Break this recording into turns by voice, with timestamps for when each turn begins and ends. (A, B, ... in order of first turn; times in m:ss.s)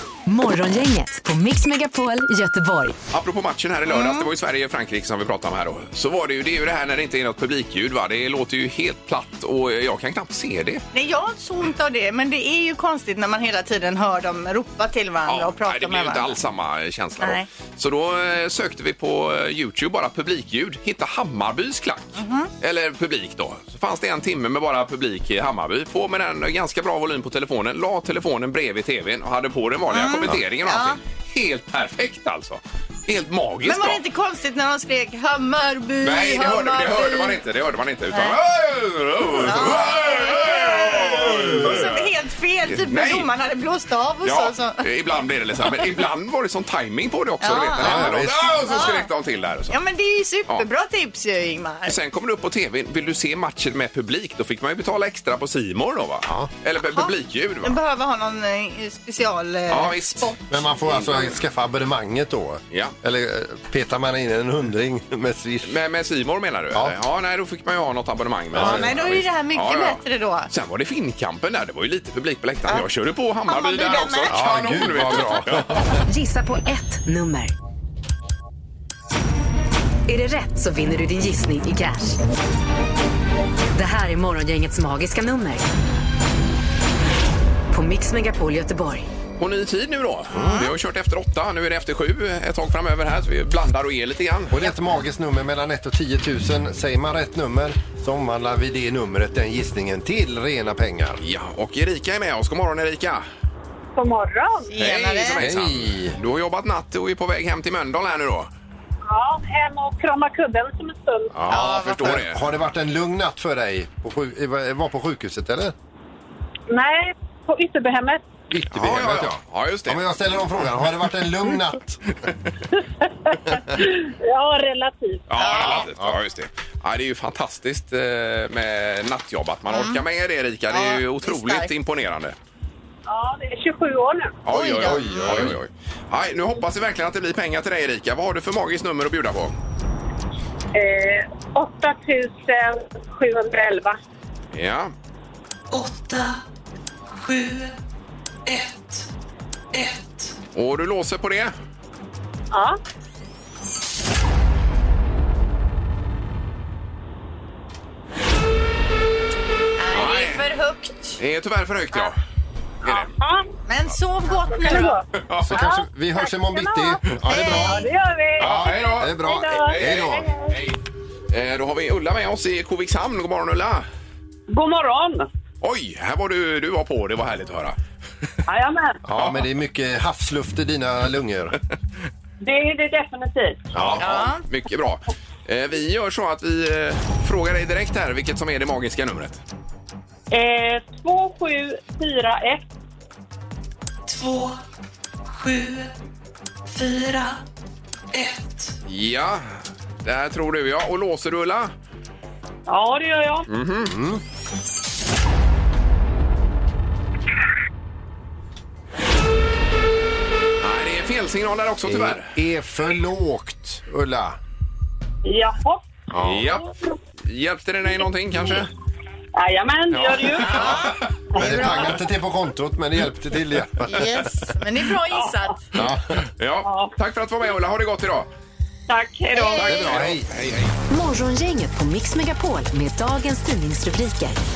0:00.2-0:02.9 A
0:03.1-0:10.8 B
0:03.9-0:04.3 C
0:10.9-0:16.4 C
0:15.3-0:34.0 B
0:17.2-0:17.4 C
0:22.2-0:22.5 C
0:29.9-0:31.0 C
0:33.6-0:37.4 C
0:36.0-0:42.1 B
0:38.1-0:38.4 C
0:39.4-0:44.8 C
0:42.7-0:43.3 B
0:44.2-0:49.7 B
0:47.4-0:49.1 C
0:47.8-0:48.9 D
0:49.7-0:51.9 C
0:51.8-0:57.8 B
0:56.9-1:00.5 C
0:59.7-1:00.3 B
1:00.5-1:05.7 D
1:00.8-1:01.4 B
1:02.7-1:03.0 B
1:05.6-1:16.0 B
1:08.5-1:09.0 D
1:08.5-1:10.5 C
1:13.5-1:14.4 C
1:14.3-1:15.8 D
1:16.0-1:17.5 A
1:20.1-1:22.2 A
1:23.7-1:25.7 A
1:27.7-1:29.0 A
1:29.4-1:34.7 B
1:30.3-1:30.7 D
1:34.5-1:41.2 D
1:41.2-1:43.2 B
1:44.0-1:44.7 E
1:44.7-1:45.4 C
1:44.8-1:48.5 B
1:45.4-1:46.2 D
1:49.1-1:51.3 E
1:51.3-1:52.4 B
1:51.4-1:55.7 D
1:51.5-1:52.2 C
1:56.7-1:58.2 E
1:58.5-2:02.0 D
1:58.7-2:00.6 B
2:03.1-2:05.2 E
2:05.3-2:12.4 B
2:05.4-2:05.9 C
2:05.6-2:06.2 D
2:09.7-2:10.0 C
2:10.7-2:11.7 C
2:13.1-2:14.4 E
2:14.4-2:19.5 B
2:14.5-2:15.4 C
2:14.6-2:15.6 D
2:20.7-2:24.0 E
2:24.5-2:24.9 B
2:25.7-2:26.4 F
2:27.0-2:27.8 F
2:28.4-2:29.1 F
2:29.7-2:30.4 F
2:30.5-2:31.5 B
2:32.5-2:32.8 E
2:39.8-2:41.2 C
2:39.9-2:40.4 B
2:41.2-2:42.2 B
2:42.8-2:43.1 B
2:42.8-2:43.5 E
2:43.7-2:45.0 C
2:44.4-2:50.6 E
2:45.2-2:45.5 B
2:45.4-2:47.8 D
2:47.3-2:47.9 C
2:48.4-2:50.3 D
2:48.4-2:50.8 B
2:51.3-2:53.8 B
2:54.5-2:55.3 E
2:55.6-2:57.8 B
2:58.5-2:59.0 E
2:59.0-3:01.6 D
2:59.2-2:59.4 B
3:02.4-3:03.6 E
3:03.7-3:04.0 D
3:03.8-3:09.4 B
3:04.0-3:04.4 C
3:10.3-3:12.6 E
3:14.0-3:14.6 F
3:15.2-3:15.9 F
3:16.7-3:17.4 F
3:18.1-3:18.7 F
3:18.8-3:21.7 B
3:22.7-3:23.5 E
3:23.5-3:23.9 B
3:23.8-3:24.2 D
3:30.6-3:32.3 B
3:31.8-3:34.4 D
3:35.2-3:35.8 E
3:36.1-3:36.4 D
3:36.1-3:36.7 B
3:36.4-3:36.9 E
3:37.2-3:38.7 B
3:39.3-3:40.8 E
3:39.9-3:40.9 B
3:40.5-3:40.8 D
3:41.3-3:42.0 E
3:41.3-3:44.2 D
3:43.8-3:45.6 C
3:45.1-3:45.5 E
3:45.7-3:48.3 B
3:45.8-3:46.0 D
3:46.6-3:46.9 E
3:48.9-3:49.9 E
3:49.3-3:49.8 C
3:49.6-3:50.7 B
3:49.6-3:50.3 D
3:50.9-3:54.4 A